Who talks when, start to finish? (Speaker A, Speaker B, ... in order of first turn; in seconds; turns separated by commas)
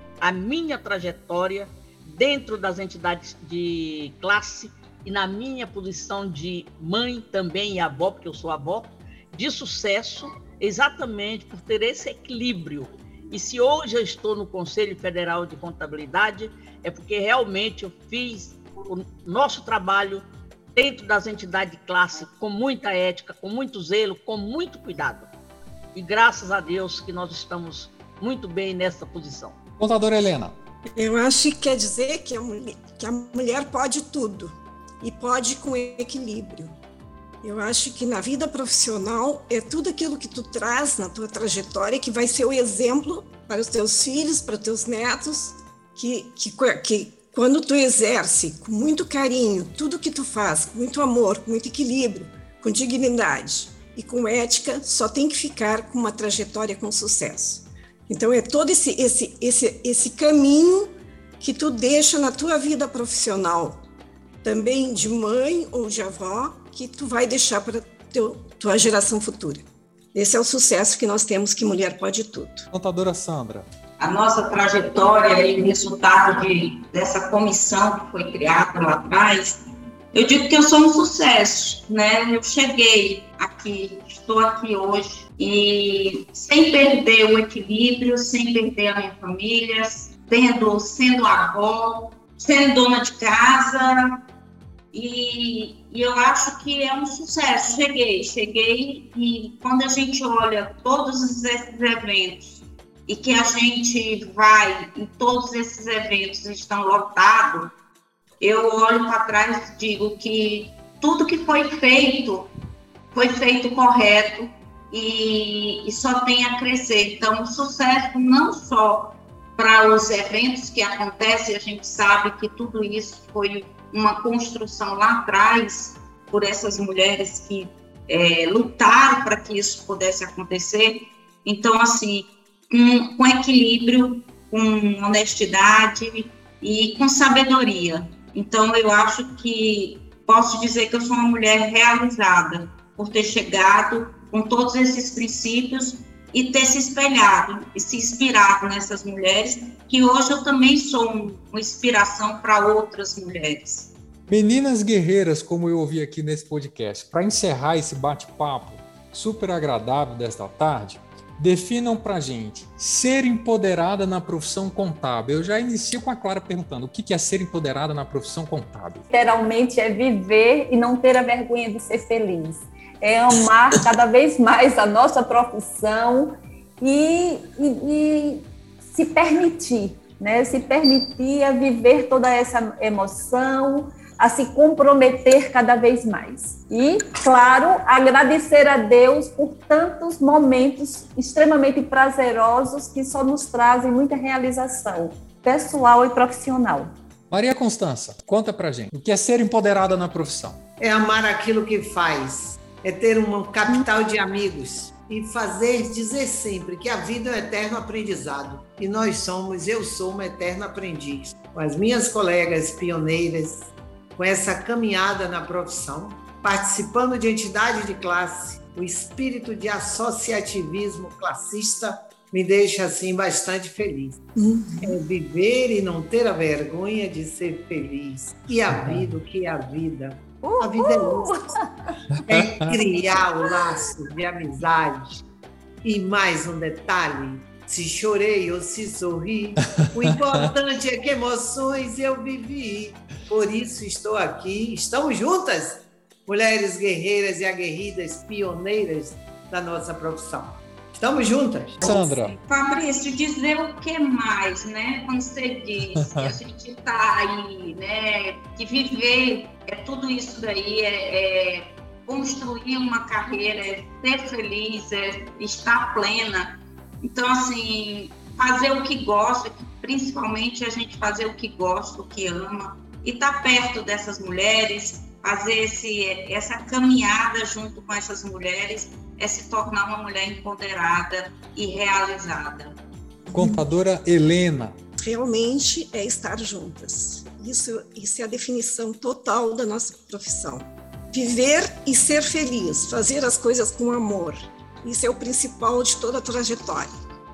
Speaker A: 0.2-25.3, Speaker A: 25.9-29.6, Speaker B: 29.8-30.5, Speaker C: 30.9-36.8, Speaker C: 37.4-63.8, Speaker C: 64.4-72.7, Speaker B: 72.7-73.7, Speaker D: 74.0-79.6, Speaker D: 80.1-94.2, Speaker D: 94.9-107.7, Speaker D: 108.4-112.5, Speaker D: 113.1-153.9, Speaker B: 154.3-169.1, Speaker E: 169.1-196.9, Speaker B: 197.3-200.6, Speaker F: 200.8-224.2, Speaker C: 224.4-225.0, Speaker F: 224.8-231.4, Speaker E: 230.4-231.5, Speaker F: 232.3-235.2, Speaker F: 235.8-251.8, Speaker B: 251.8-252.4, Speaker D: 251.9-282.8, Speaker B: 255.9-256.3, Speaker C: 283.3-283.6, Speaker B: 283.3-284.8, Speaker C: 285.0-296.9